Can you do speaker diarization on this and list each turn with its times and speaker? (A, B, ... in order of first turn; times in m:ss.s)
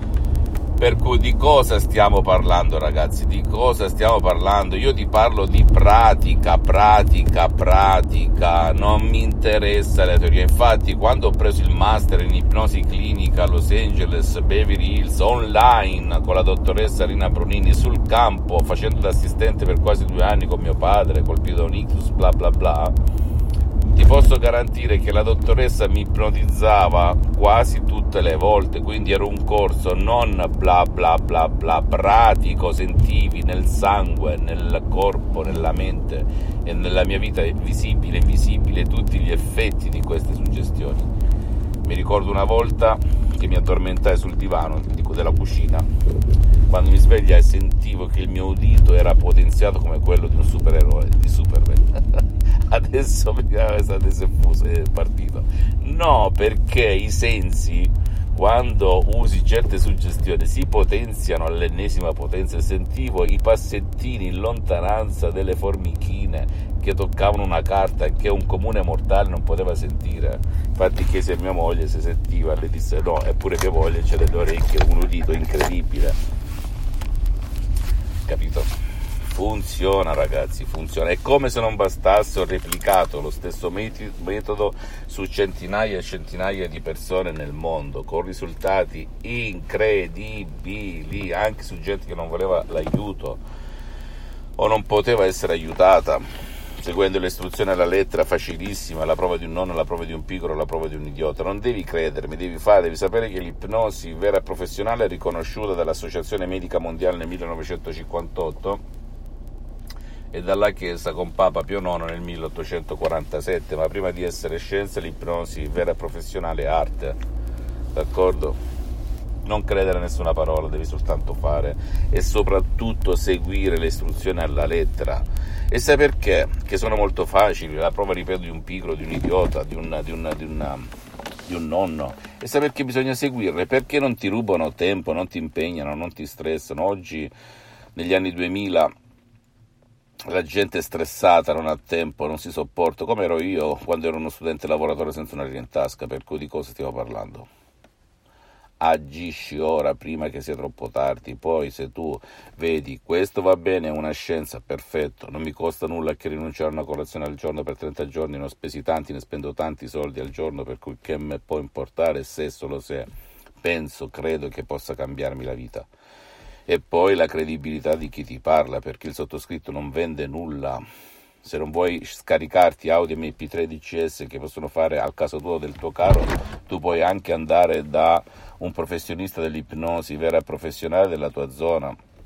0:00.8-0:22.9 A
0:23.9-0:41.1 A
0:41.8-0:45.8 A
0:46.7-1:16.2 A
1:18.2-1:18.7 A
1:19.3-1:33.4 A
1:34.6-1:36.2 A
1:36.8-1:48.8 A
1:50.3-1:57.2 A
1:57.9-1:58.6 A
1:59.4-2:10.9 A
2:11.5-2:17.3 A
2:17.9-2:18.9 A
2:20.3-2:27.5 A
2:28.8-2:43.1 A
2:43.6-2:45.9 A
2:46.7-2:50.8 A
2:51.4-3:02.0 A